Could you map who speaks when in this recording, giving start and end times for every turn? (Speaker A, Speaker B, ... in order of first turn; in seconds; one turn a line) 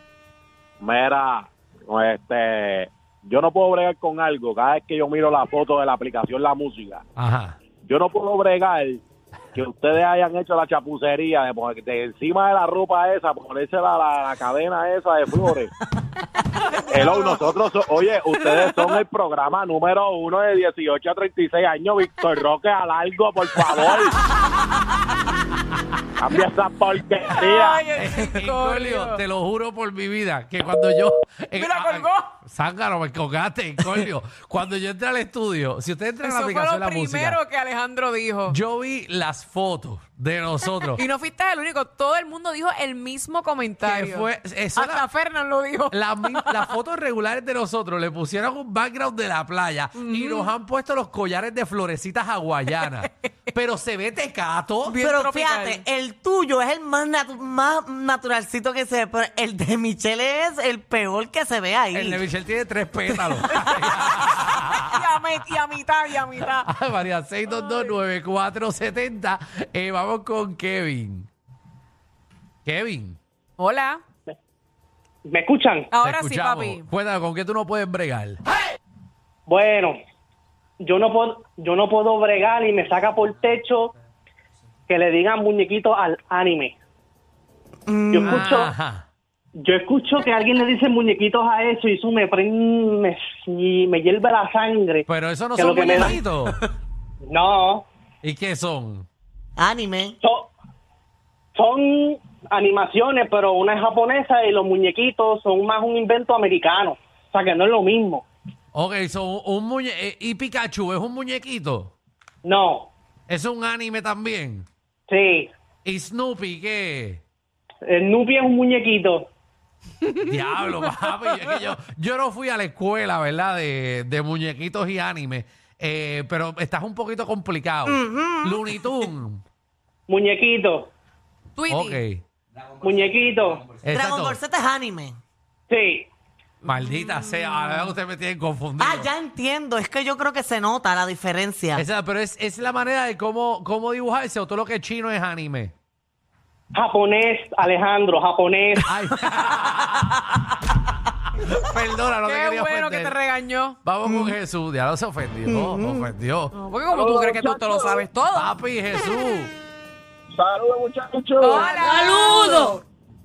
Speaker A: 0.8-7.0
Speaker B: 7.2-7.6
Speaker A: 7.8-9.0
Speaker A: 9.6-15.7
Speaker A: 16.9-24.1
Speaker A: 26.2-27.8
Speaker B: 27.2-37.4
Speaker C: 27.3-29.2
Speaker C: 31.6-32.3
Speaker C: 36.2-38.6
Speaker B: 38.5-41.0
Speaker C: 40.9-46.7
Speaker B: 43.8-45.0
Speaker B: 45.9-55.0
Speaker C: 50.0-50.5
Speaker C: 52.8-53.1
Speaker C: 54.9-55.8
Speaker D: 55.0-62.2
Speaker B: 61.9-65.0
Speaker C: 63.4-66.7
Speaker B: 66.4-71.3
Speaker B: 72.7-73.2
Speaker C: 73.6-74.0
Speaker E: 75.3-75.9
Speaker C: 75.9-76.9
Speaker B: 76.0-78.4
Speaker E: 79.5-80.0
Speaker E: 80.8-83.9
Speaker E: 84.9-86.7
Speaker D: 87.9-88.5
Speaker E: 88.1-88.7
Speaker B: 88.2-89.0
Speaker E: 89.6-95.0
Speaker B: 95.1-96.5
Speaker E: 95.6-96.5
Speaker E: 97.3-97.8
Speaker B: 98.2-99.1
Speaker D: 99.6-100.2
Speaker E: 100.2-100.5
Speaker E: 101.5-108.2
Speaker B: 108.7-111.9
Speaker E: 112.4-112.9
Speaker B: 113.3-114.7
Speaker E: 115.1-115.5
Speaker B: 115.8-117.2
Speaker E: 117.8-119.3
Speaker B: 120.2-129.4
Speaker C: 120.5-120.9
Speaker D: 127.8-128.9
Speaker E: 130.1-130.9
Speaker C: 131.6-132.0
Speaker B: 131.7-132.2
Speaker E: 132.8-133.7
Speaker B: 133.8-134.4
Speaker D: 133.9-135.2
Speaker E: 135.7-136.1
Speaker B: 136.6-139.1
Speaker D: 138.8-141.8
Speaker B: 141.8-145.7
Speaker E: 146.7-148.9
Speaker B: 148.9-150.7
Speaker B: 151.2-153.2
Speaker C: 152.2-153.8
Speaker B: 153.8-156.5
Speaker D: 154.0-154.4
Speaker D: 155.4-156.1
Speaker C: 156.6-158.5
Speaker F: 156.9-158.1
Speaker B: 158.3-159.5
Speaker F: 160.3-161.9
Speaker C: 161.4-162.8
Speaker D: 162.0-162.4